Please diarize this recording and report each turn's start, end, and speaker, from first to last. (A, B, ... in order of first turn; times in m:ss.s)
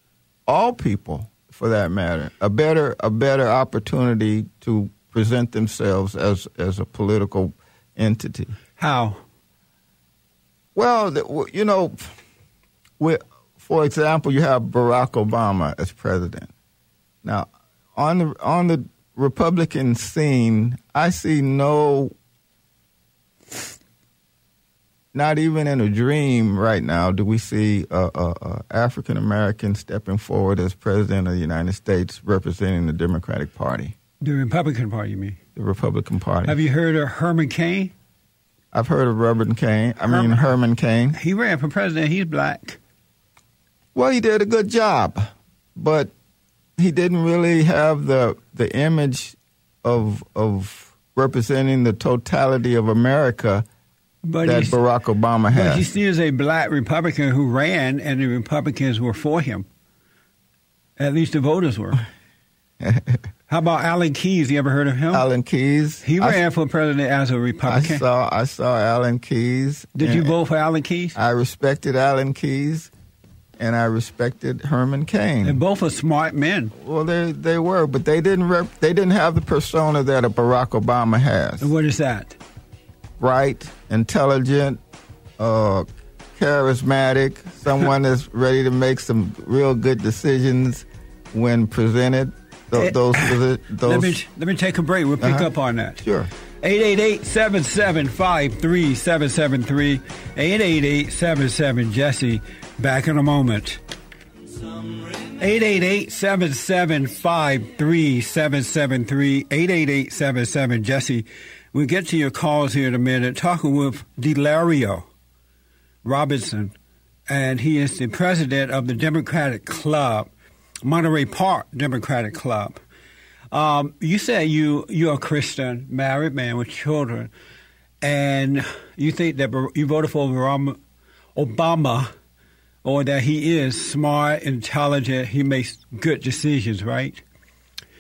0:00.5-0:08.6 A
0:08.8-0:09.2 B
0:10.8-0:12.0 A
0:13.0-0:16.5 A
0:17.2-0:22.1 A
0:25.1-0:34.0 A
0:34.2-0:35.4 B
0:35.6-0:36.6 A
0:36.5-0:37.9 B
0:38.7-0:41.2 A
0:40.1-0:40.4 B
0:41.1-0:42.8 B
0:44.0-0:46.1 A
0:46.8-0:53.7 A
0:54.2-0:54.8 B
0:54.4-0:55.9 A
0:55.5-0:59.7 B
1:01.0-1:02.0 B
1:02.8-1:03.2 A
1:03.5-1:05.3 B
1:05.1-1:06.4 A
1:06.0-1:08.0 B
1:07.7-1:10.4 A
1:10.0-1:11.2 B
1:11.2-1:12.9 A
1:13.6-1:15.6 A
1:15.4-1:16.7 B
1:16.8-1:21.7 A
1:21.6-1:22.4 B
1:23.2-1:24.8 A
1:25.4-1:34.2 A
1:32.8-1:33.3 B
1:33.8-1:36.0 B
1:35.2-1:35.5 A
1:36.0-1:36.3 A
1:36.6-1:43.8 B
1:45.2-1:55.1 B
1:56.0-1:56.7 B
1:57.3-2:00.3 B
2:00.8-2:02.8 B
2:03.5-2:07.3 B
2:08.0-2:10.8 B
2:11.4-2:12.1 B
2:12.8-2:17.2 B